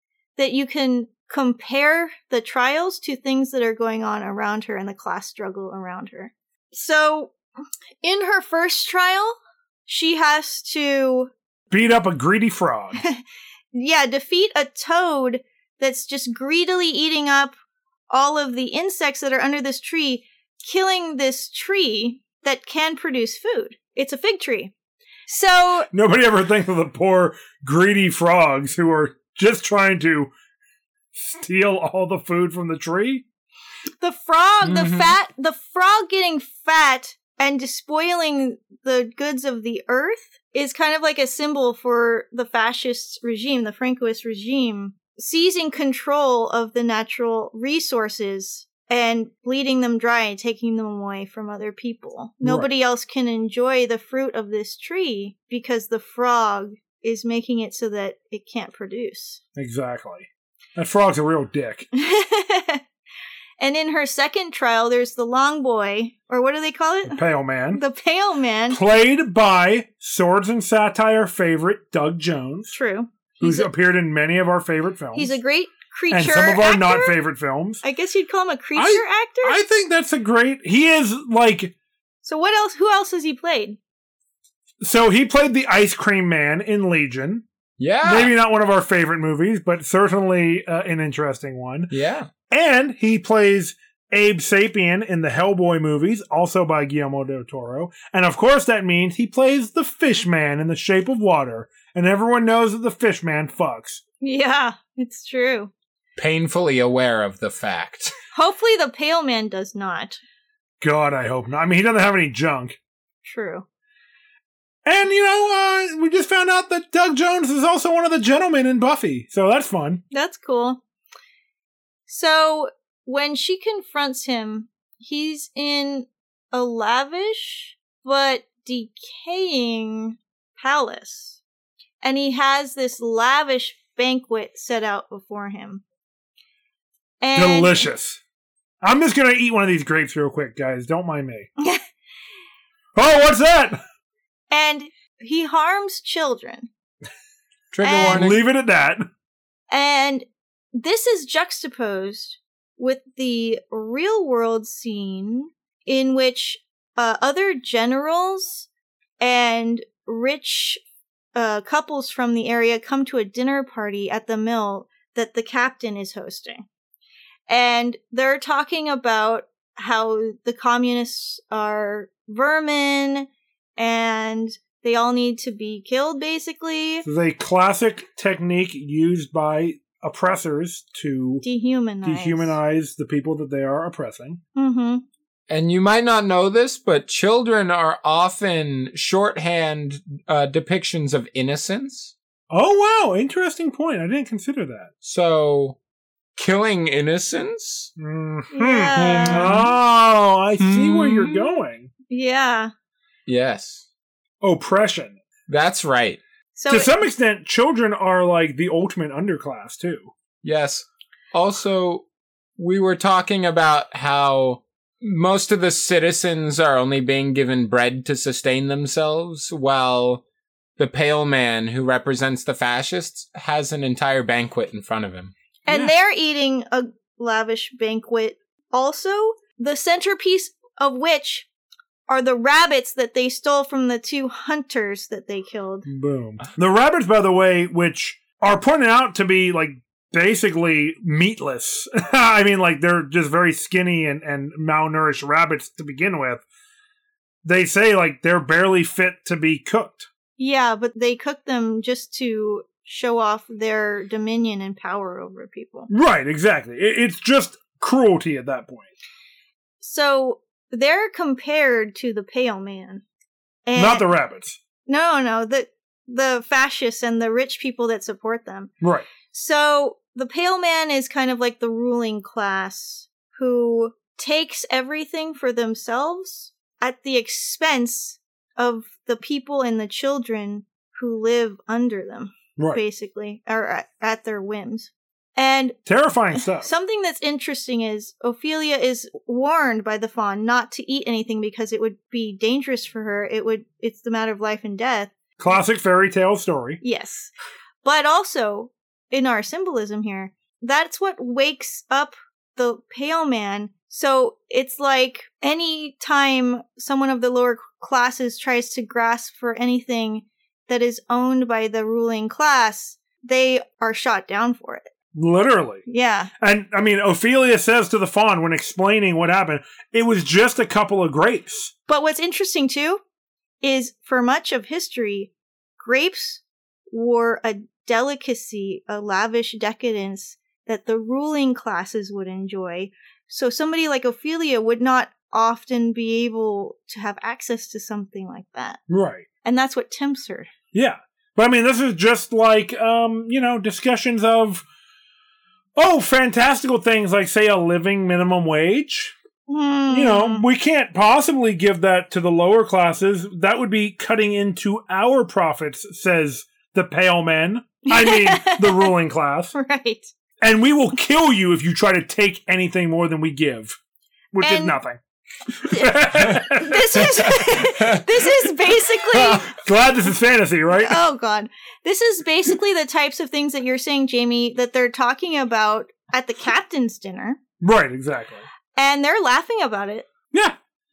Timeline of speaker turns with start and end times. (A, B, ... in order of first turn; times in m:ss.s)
0:00.4-0:07.4 A
0:08.0-0:11.3 A
0:11.7-0:13.0 B
0:13.7-0:17.6 A
0:18.1-0:24.7 A
0:25.3-0:25.9 A
0:25.9-0:30.3 B
0:31.1-0:33.2 B
0:34.0-0:59.4 A
0:34.6-0:35.1 C
0:52.4-0:52.7 B
0:59.6-1:01.9 B
1:01.9-1:02.8 A
1:03.6-1:07.2 A
1:07.1-1:07.8 B
1:07.7-1:08.8 A
1:08.7-1:12.7 B
1:12.7-1:13.7 A
1:13.4-1:15.4 B
1:15.2-1:17.1 A
1:16.1-1:17.8 B
1:17.8-1:19.6 A
1:18.8-1:21.7 B
1:22.2-1:23.8 A
1:24.8-1:27.4 B
1:27.8-1:28.3 C
1:28.0-1:31.9 B
1:31.9-1:32.3 C
1:32.5-1:44.0 B
1:44.2-1:45.7 A
1:46.2-1:48.1 C
1:48.3-1:50.2 A
1:50.8-1:52.8 B
1:53.2-1:53.6 A
1:54.8-2:00.0 B
2:00.1-2:00.8 A
2:02.1-2:11.4 A
2:12.0-2:15.8 A
2:17.2-2:17.8 A
2:17.3-2:18.2 B
2:18.8-2:21.5 B
2:23.0-2:23.8 B
2:24.5-2:26.7 A
2:27.7-2:28.4 C
2:27.8-2:28.2 A
2:28.0-2:29.0 B
2:29.7-2:38.7 A
2:39.2-2:40.8 A
2:41.3-2:46.6 A
2:47.5-2:53.3 A
2:53.8-2:57.0 A
2:57.0-3:01.4 B
3:01.4-3:02.5 A
3:02.0-3:04.4 B
3:04.6-3:05.0 A
3:05.5-3:12.1 C
3:12.5-3:14.9 B
3:15.0-3:15.8 C
3:16.4-3:17.9 C
3:18.0-3:21.9 B
3:18.5-3:19.6 A
3:19.2-3:19.7 C
3:20.6-3:21.6 C
3:22.1-3:22.7 A
3:23.3-3:23.9 C
3:24.4-3:25.2 B
3:25.5-3:26.2 C
3:26.5-3:26.9 A
3:26.7-3:30.1 B
3:30.4-3:32.0 C
3:32.6-3:40.2 C
3:40.8-3:45.3 C
3:45.6-3:51.5 A
3:45.7-3:45.9 B
3:52.1-3:55.9 A
3:55.8-4:06.4 B
4:07.4-4:10.1 B
4:10.4-4:15.9 A
4:15.9-4:18.9 B
4:19.8-4:23.0 A
4:23.6-4:24.1 A
4:23.8-4:24.6 B
4:24.8-4:28.7 A
4:28.8-4:29.1 B
4:29.3-4:45.8 A
4:42.6-4:42.8 B
4:45.8-4:46.7 B
4:46.5-4:55.1 A
4:55.4-4:56.8 B
4:56.8-4:57.3 A
4:57.8-5:14.9 A
5:15.1-5:15.8 B
5:15.9-5:16.3 A
5:16.4-5:21.7 B
5:21.9-5:23.0 A
5:23.6-5:38.8 A
5:38.9-5:39.2 B
5:39.4-5:40.5 A
5:40.7-5:44.6 B
5:45.8-5:49.1 B
5:49.5-5:50.4 A
5:49.9-5:59.5 B
5:57.9-5:58.9 A
5:59.5-6:00.1 A
6:00.4-6:03.8 B
6:04.3-6:05.0 B
6:04.4-6:04.8 A
6:05.6-6:07.0 B
6:05.6-6:09.6 A
6:07.0-6:08.0 C
6:09.1-6:09.4 C
6:09.5-6:11.0 B
6:10.8-6:17.4 A
6:17.6-6:18.5 B
6:18.7-6:20.0 A